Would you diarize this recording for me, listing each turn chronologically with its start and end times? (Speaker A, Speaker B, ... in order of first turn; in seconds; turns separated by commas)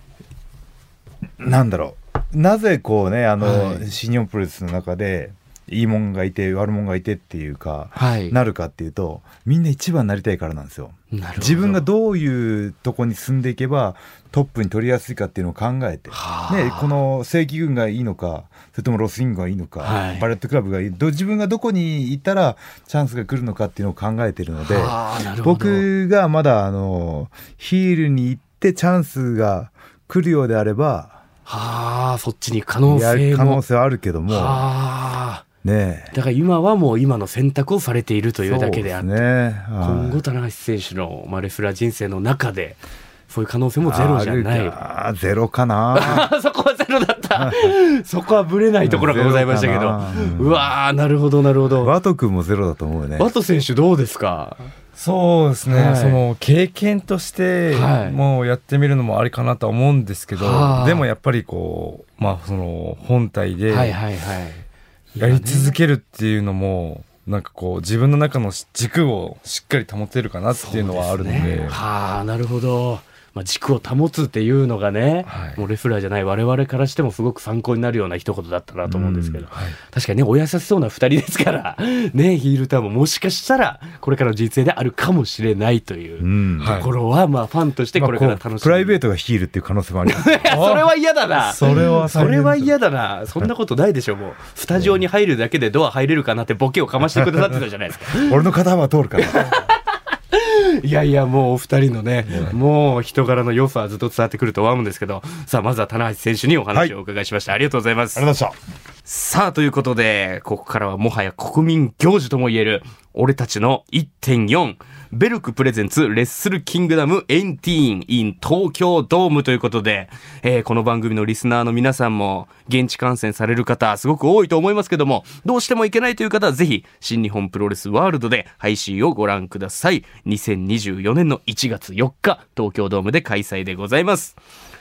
Speaker A: 1.4-31.2, Speaker B: 3.4-3.9, Speaker B: 8.0-8.4, Speaker B: 11.1-11.8, Speaker B: 16.1-16.9, Speaker B: 19.8-20.3, Speaker B: 24.6-25.9, Speaker B: 31.4-33.6, Speaker A: 32.9-34.6, Speaker B: 34.3-35.4, Speaker A: 35.6-36.1, Speaker B: 36.1-39.2, Speaker A: 38.5-40.2, Speaker B: 39.8-44.8, Speaker A: 43.8-46.3, Speaker B: 45.9-51.9, Speaker A: 47.3-47.8, Speaker A: 48.9-50.7, Speaker A: 51.8-53.3, Speaker B: 53.2-54.6, Speaker C: 55.0-64.0, Speaker B: 55.7-56.2, Speaker B: 57.7-58.2, Speaker B: 60.4-61.0, Speaker B: 63.7-64.6, Speaker B: 65.1-65.7, Speaker C: 65.2-71.8, Speaker B: 70.5-89.0, Speaker C: 75.2-75.6, Speaker A: 78.9-79.4, Speaker C: 79.5-79.8, Speaker A: 86.2-86.9, Speaker C: 86.6-86.9, Speaker A: 88.0-90.5, Speaker B: 90.1-98.4, Speaker C: 90.5-92.7, Speaker A: 98.1-99.6, Speaker B: 99.2-99.8, Speaker B: 100.3-108.3, Speaker A: 108.1-108.5, Speaker B: 109.0-134.4